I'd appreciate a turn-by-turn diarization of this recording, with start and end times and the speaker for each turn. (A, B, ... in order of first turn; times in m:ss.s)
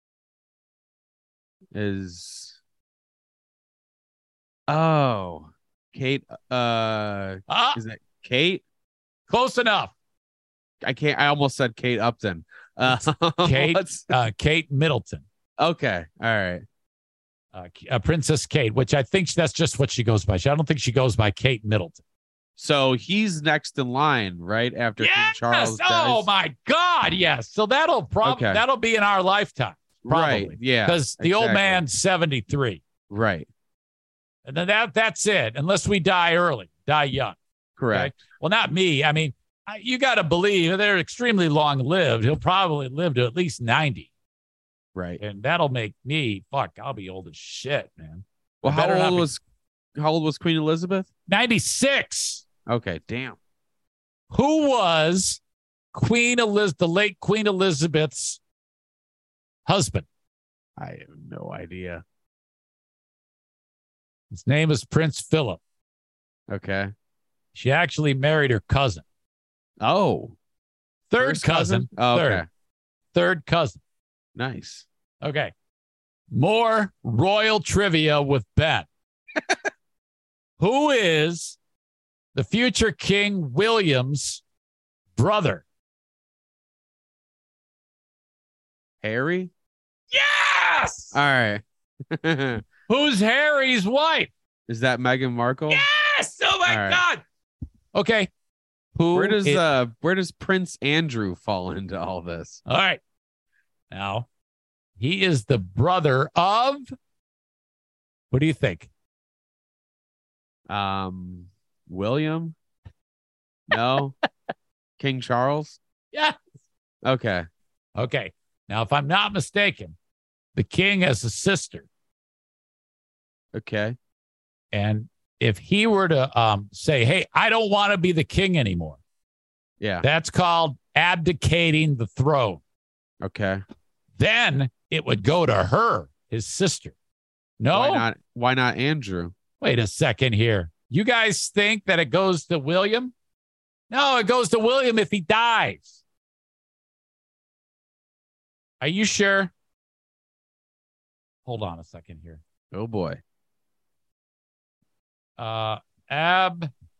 0:01.7-0:02.6 A
0:04.7-0:08.6 A
0:07.5-0:07.8 B
0:09.3-0:09.9 B
0:10.8-0:14.2 A
0:12.9-0:15.2 B
0:15.6-0:16.6 A
0:17.5-0:22.0 B
0:22.6-0:26.3 A
0:25.0-0:32.8 B
0:28.2-0:28.6 A
0:30.0-0:31.8 A
0:33.1-0:33.5 A
0:34.4-0:37.4 B
0:37.8-0:38.1 A
0:37.9-0:44.1 B
0:45.2-0:49.3 B
0:48.6-0:49.4 A
0:50.0-0:51.1 A
0:51.3-0:52.4 B
0:52.7-0:53.4 A
0:54.3-0:55.4 B
0:55.9-0:58.4 B
0:59.7-1:00.1 B
1:00.8-1:02.0 A
1:04.3-1:05.6 B
1:06.5-1:06.9 A
1:07.5-1:09.0 B
1:09.8-1:10.4 A
1:11.1-1:12.4 B
1:11.2-1:12.4 A
1:13.1-1:13.8 B
1:14.4-1:14.9 A
1:15.2-1:15.5 B
1:16.3-1:18.9 B
1:20.6-1:21.6 B
1:22.4-1:24.4 B
1:25.2-1:25.6 B
1:29.0-1:29.5 A
1:30.1-1:31.2 B
1:31.1-1:31.6 A
1:32.2-1:32.6 A
1:32.9-1:34.3 B
1:34.7-1:35.8 A
1:35.7-1:37.2 B
1:36.7-1:37.0 A
1:38.0-1:38.3 B
1:39.0-1:39.6 B
1:39.0-1:42.6 A
1:42.7-1:43.0 B
1:43.9-1:44.3 B
1:45.0-1:46.8 B
1:48.3-1:48.9 B
1:50.7-1:52.6 A
1:53.7-1:54.2 A
1:55.0-1:55.8 A
1:57.0-1:57.4 A
1:58.0-2:00.0 B
2:00.6-2:01.9 B
2:03.6-2:04.0 A
2:04.7-2:09.0 B
2:09.8-2:10.1 A
2:10.0-2:12.6 B
2:13.2-2:13.6 A
2:14.2-2:16.9 B
2:17.6-2:18.0 B
2:17.7-2:19.3 A
2:19.6-2:23.1 B
2:23.9-2:26.0 B
2:28.8-2:29.5 B
2:31.5-2:32.4 B
2:32.7-2:33.2 A
2:35.4-2:36.7 B